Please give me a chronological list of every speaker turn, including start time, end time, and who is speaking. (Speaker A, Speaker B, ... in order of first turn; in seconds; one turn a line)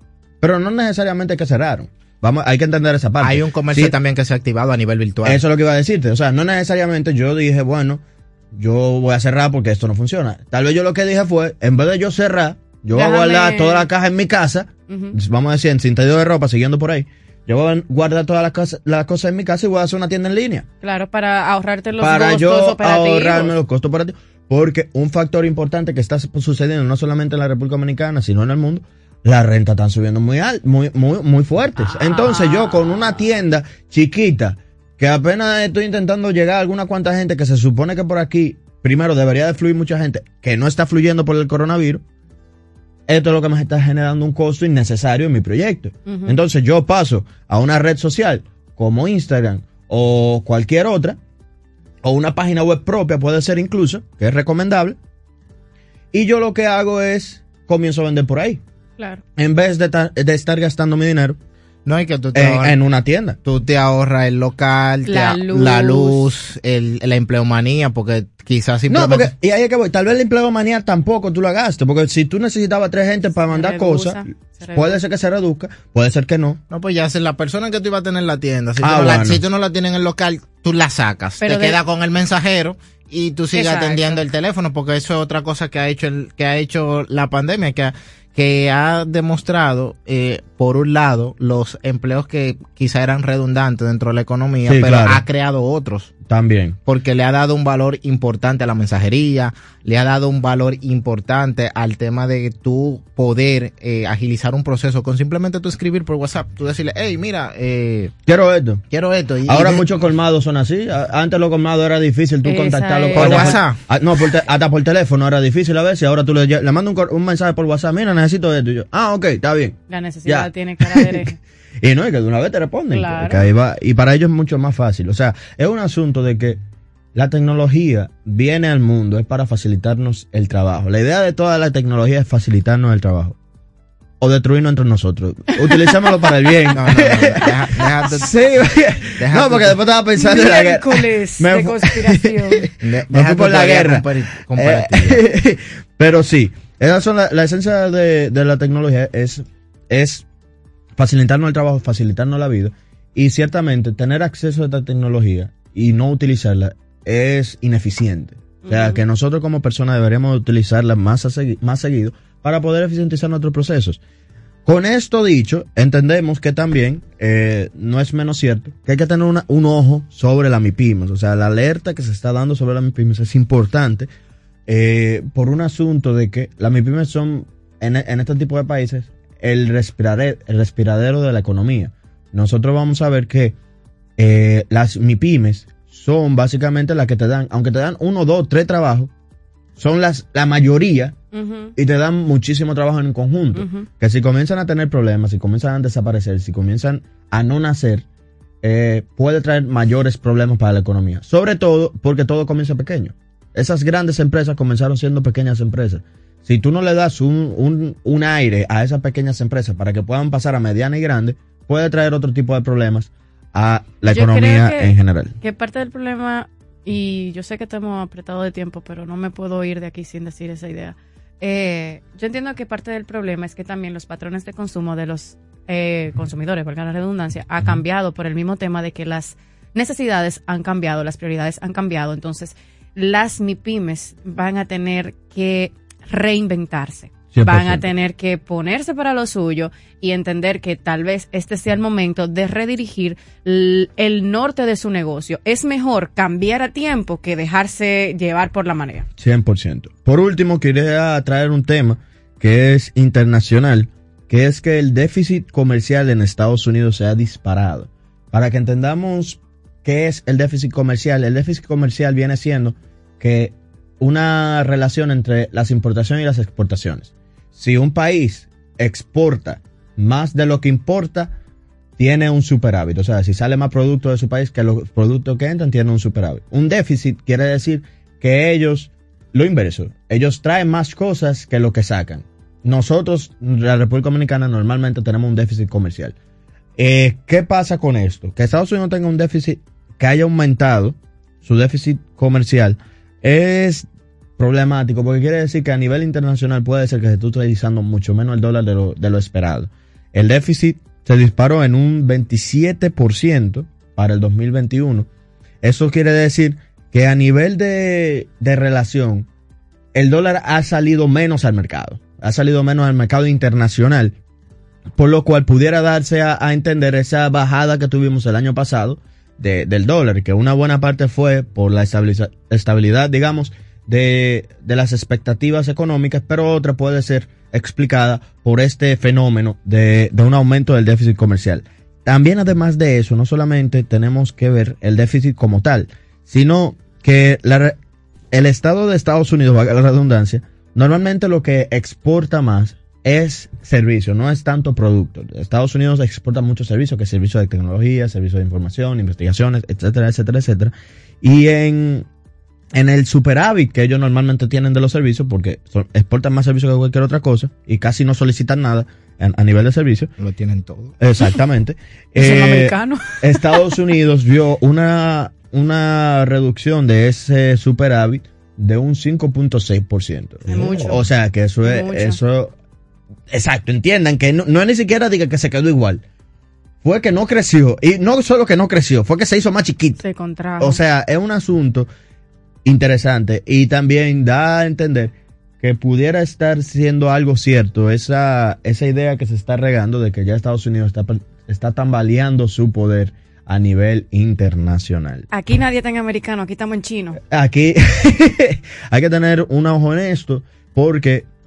Speaker A: 0.4-3.9
Speaker B: 3.2-5.4
Speaker A: 5.2-20.7
Speaker C: 12.9-13.9
Speaker C: 14.9-15.2
Speaker C: 20.8-23.5
Speaker A: 22.0-42.0
Speaker C: 31.8-33.1
Speaker A: 43.1-51.2
Speaker C: 46.0-46.4
Speaker A: 52.0-55.0
Speaker A: 56.1-58.6
Speaker A: 59.4-61.4
Speaker B: 61.9-62.8
Speaker A: 62.3-63.4
Speaker B: 63.4-69.3
Speaker C: 65.0-66.2
Speaker A: 68.9-76.6
Speaker C: 73.5-75.0
Speaker B: 76.7-96.1
Speaker A: 78.8-79.4
Speaker C: 81.4-81.8
Speaker C: 83.5-84.2
Speaker A: 94.6-95.2
Speaker A: 96.2-96.8
Speaker B: 96.8-108.1
Speaker A: 108.2-108.8
Speaker B: 108.9-109.8
Speaker A: 109.5-121.2
Speaker C: 112.4-113.6
Speaker B: 113.1-113.8
Speaker C: 119.9-121.4
Speaker A: 121.8-126.6
Speaker C: 122.9-123.5
Speaker A: 127.1-133.4
Speaker A: 134.2-150.2
Speaker B: 136.7-138.4
Speaker B: 139.2-139.8
Speaker C: 140.2-142.7
Speaker B: 142.8-145.2
Speaker A: 150.9-164.0
Speaker C: 158.6-159.0
Speaker A: 164.7-174.1
Speaker A: 174.7-183.6
Speaker A: 184.2-189.1
Speaker A: 189.8-191.2
Speaker C: 191.3-191.7
Speaker A: 191.8-198.1
Speaker C: 193.5-193.9
Speaker A: 198.6-215.3
Speaker C: 214.0-249.1
Speaker A: 237.3-237.9
Speaker A: 249.2-271.3
Speaker A: 272.0-286.1
Speaker A: 286.8-305.1
Speaker A: 305.6-309.3
Speaker A: 309.9-314.2
Speaker A: 314.9-337.8
Speaker A: 338.3-352.1
Speaker A: 352.7-360.1
Speaker B: 360.2-360.9
Speaker A: 361.0-372.5
Speaker C: 362.1-363.7
Speaker C: 370.5-371.0
Speaker C: 371.6-372.2
Speaker A: 373.3-376.0
Speaker A: 376.8-380.0
Speaker C: 380.0-380.8
Speaker A: 380.6-381.9
Speaker A: 382.6-395.3
Speaker C: 395.3-397.2
Speaker A: 397.3-401.3